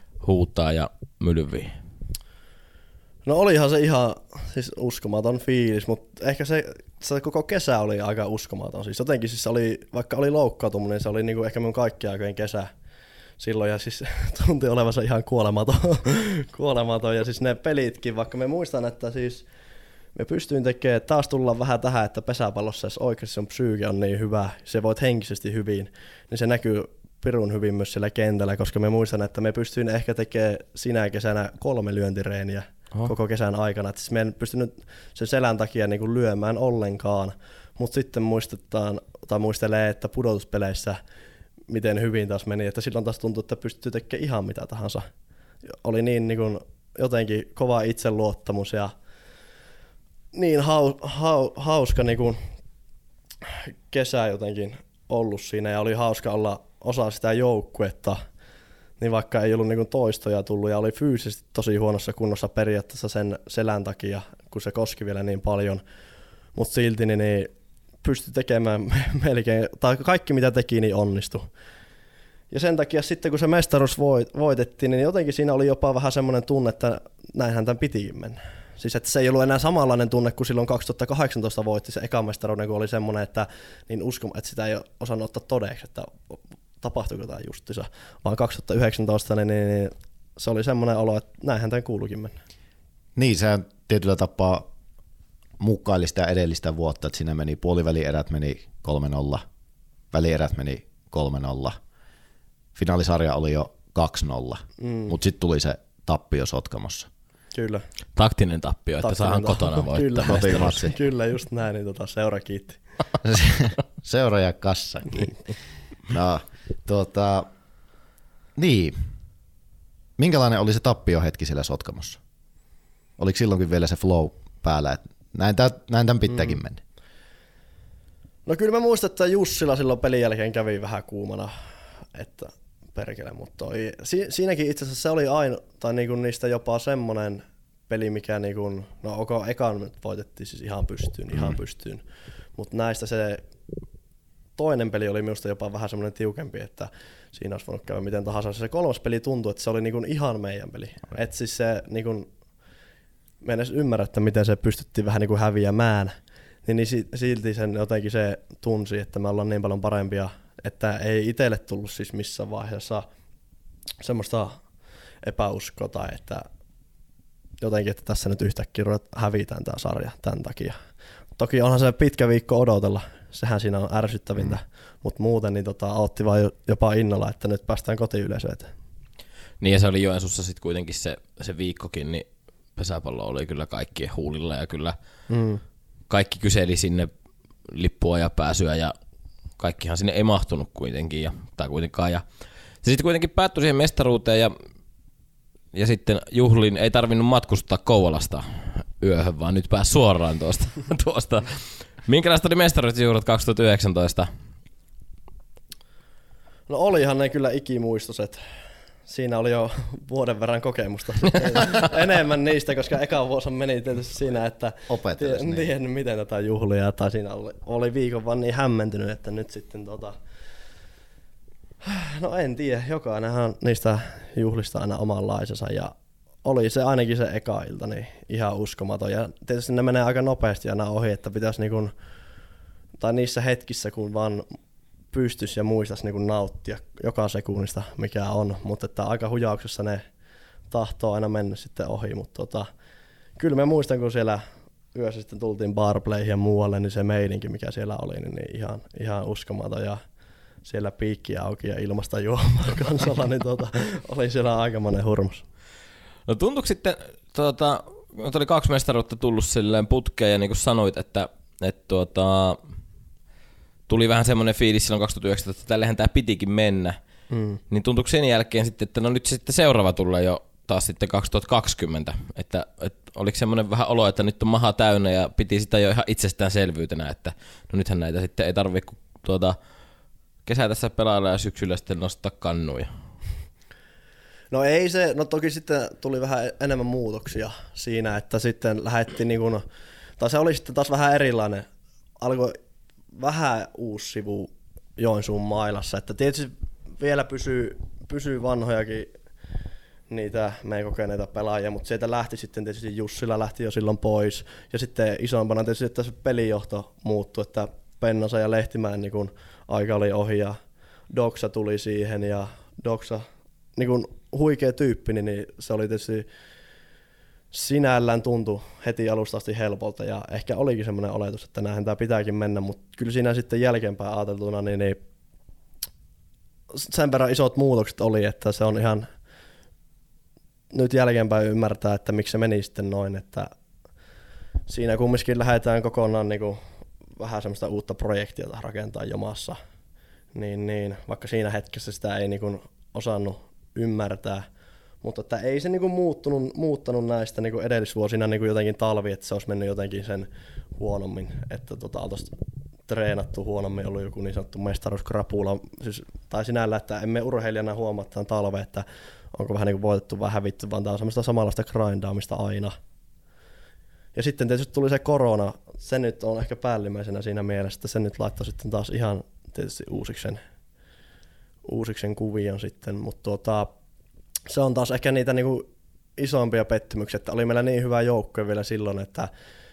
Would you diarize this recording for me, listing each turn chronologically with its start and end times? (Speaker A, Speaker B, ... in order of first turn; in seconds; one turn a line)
Speaker A: 0.2-1.7
Speaker B: 3.2-12.7
Speaker B: 13.4-19.4
Speaker B: 20.1-41.0
Speaker B: 41.7-45.0
Speaker B: 45.8-48.9
Speaker B: 50.3-52.4
Speaker B: 53.5-58.2
Speaker B: 59.0-65.8
Speaker B: 66.5-67.5
Speaker B: 68.0-71.5
Speaker B: 72.5-92.3
Speaker C: 93.2-94.7
Speaker C: 95.6-99.4
Speaker C: 100.1-101.8
Speaker C: 102.7-107.1
Speaker B: 104.8-105.1
Speaker B: 107.5-107.8
Speaker A: 108.2-110.8
Speaker B: 109.0-112.8
Speaker C: 110.2-110.9
Speaker C: 113.2-115.3
Speaker C: 116.1-117.5
Speaker C: 118.6-119.0
Speaker C: 120.2-122.2
Speaker C: 123.2-126.8
Speaker B: 128.4-131.5
Speaker B: 132.1-142.0
Speaker B: 142.6-143.4
Speaker B: 144.6-152.3
Speaker B: 153.4-156.1
Speaker B: 156.7-163.0
Speaker B: 164.0-164.6
Speaker B: 165.2-166.5
Speaker B: 167.6-170.8
Speaker B: 171.4-178.7
Speaker A: 179.6-184.9
Speaker B: 185.3-185.6
Speaker A: 186.1-187.1
Speaker A: 187.7-188.9
Speaker A: 189.6-192.2
Speaker A: 192.8-194.5
Speaker A: 195.7-204.3
Speaker B: 206.7-208.4
Speaker B: 209.1-220.1
Speaker C: 214.9-215.7
Speaker B: 221.8-225.9
Speaker B: 226.4-231.9
Speaker B: 233.0-234.4
Speaker B: 235.1-240.0
Speaker B: 240.7-242.7
Speaker B: 243.4-244.4
Speaker B: 244.9-250.0
Speaker B: 250.6-255.4
Speaker A: 256.3-262.6
Speaker A: 263.9-267.0
Speaker B: 267.3-267.6
Speaker A: 267.7-279.6
Speaker A: 280.4-282.9
Speaker B: 284.5-289.6
Speaker B: 290.2-291.7
Speaker B: 292.2-292.6
Speaker B: 293.2-299.1
Speaker B: 300.1-310.6
Speaker B: 311.1-313.2
Speaker B: 313.8-316.2
Speaker B: 317.5-325.0
Speaker B: 326.7-329.1
Speaker B: 330.7-333.5
Speaker B: 334.7-336.6
Speaker B: 337.2-339.6
Speaker B: 340.3-344.4
Speaker B: 345.0-352.3
Speaker B: 352.9-362.7
Speaker B: 364.1-370.4
Speaker B: 371.6-373.7
Speaker B: 374.5-375.7
Speaker B: 376.2-379.3